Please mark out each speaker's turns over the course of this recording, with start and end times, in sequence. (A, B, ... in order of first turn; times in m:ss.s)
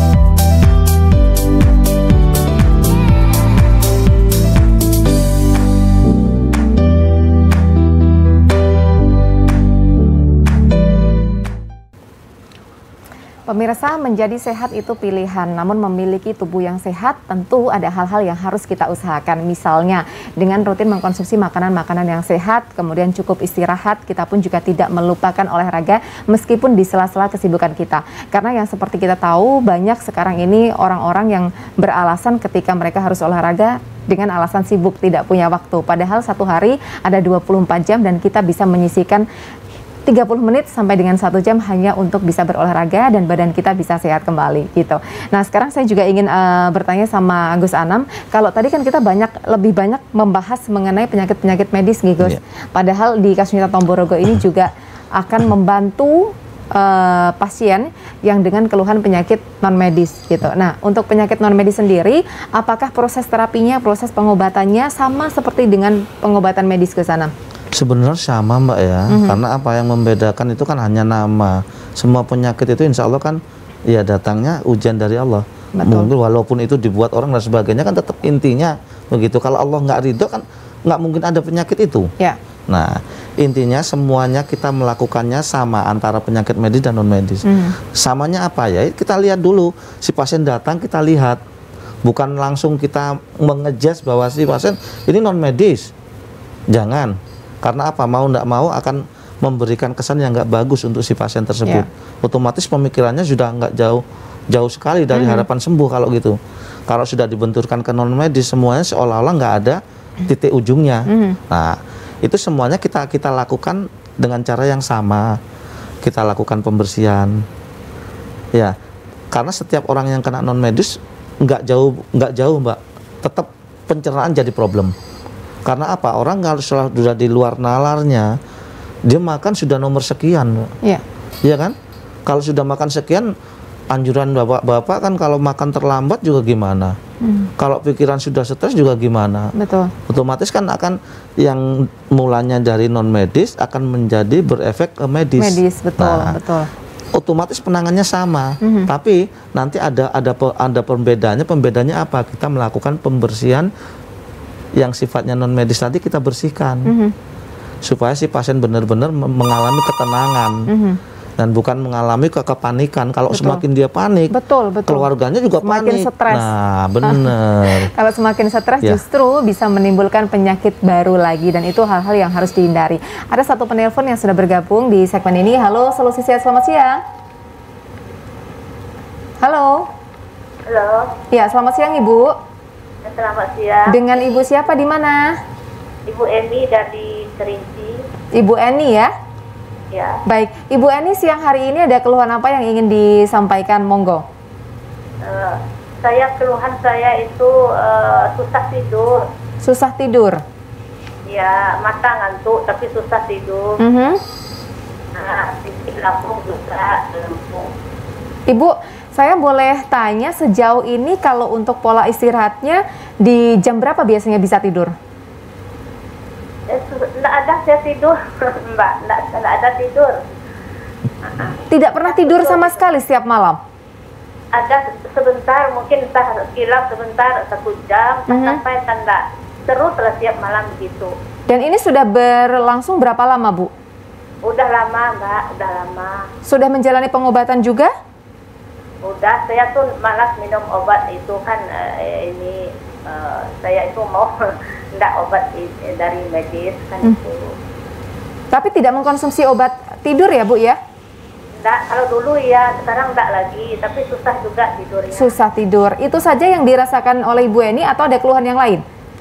0:13.5-0:39.2 A
0:40.0-1:07.3 A
1:07.7-1:22.1 B
1:09.1-1:09.4 A
1:15.8-1:16.1 A
1:22.7-1:31.4 B
1:27.4-1:27.7 A
1:32.0-1:35.9 B
1:36.7-1:46.4 B
1:45.1-1:45.4 A
1:46.9-1:55.4 B
1:51.1-1:51.4 A
1:56.0-1:57.4 B
1:59.3-2:04.9 B
2:05.6-2:08.3 B
2:09.0-2:10.7 B
2:11.4-2:11.7 B
2:12.3-2:13.3 B
2:13.9-2:17.0 B
2:17.2-2:17.5 A
2:17.6-2:19.5 B
2:19.6-2:19.9 A
2:20.1-2:26.3 B
2:25.4-2:26.7 A
2:27.2-2:33.7 B
2:28.6-2:28.9 A
2:34.8-2:36.9 B
2:36.9-2:37.1 A
2:37.8-2:40.6 B
2:40.7-2:41.0 A
2:41.4-2:44.3 B
2:43.3-2:43.6 A
2:44.3-2:45.1 A
2:44.9-2:47.9 B
2:45.6-2:46.5 A
2:47.0-2:57.0 A
2:59.4-2:59.9 A
3:00.7-3:01.1 C
3:01.3-3:02.3 A
3:03.0-3:04.2 C
3:03.9-3:05.4 A
3:06.1-3:08.0 C
3:08.3-3:09.1 A
3:09.9-3:10.2 C
3:10.2-3:14.2 A
3:15.2-3:19.2 C
3:19.6-3:20.4 A
3:21.3-3:23.8 C
3:23.8-3:24.2 A
3:25.2-3:27.7 C
3:28.5-3:34.9 A
3:36.7-3:40.3 C
3:41.2-3:42.8 C
3:41.7-3:43.6 A
3:44.5-3:51.1 C
3:48.3-3:48.6 A
3:51.5-3:53.7 A
3:54.4-3:56.3 C
3:56.5-3:57.9 A
3:59.0-4:04.4 C
4:04.9-4:07.5 C
4:08.5-4:10.8 A
4:11.6-4:15.3 C
4:15.1-4:18.8 A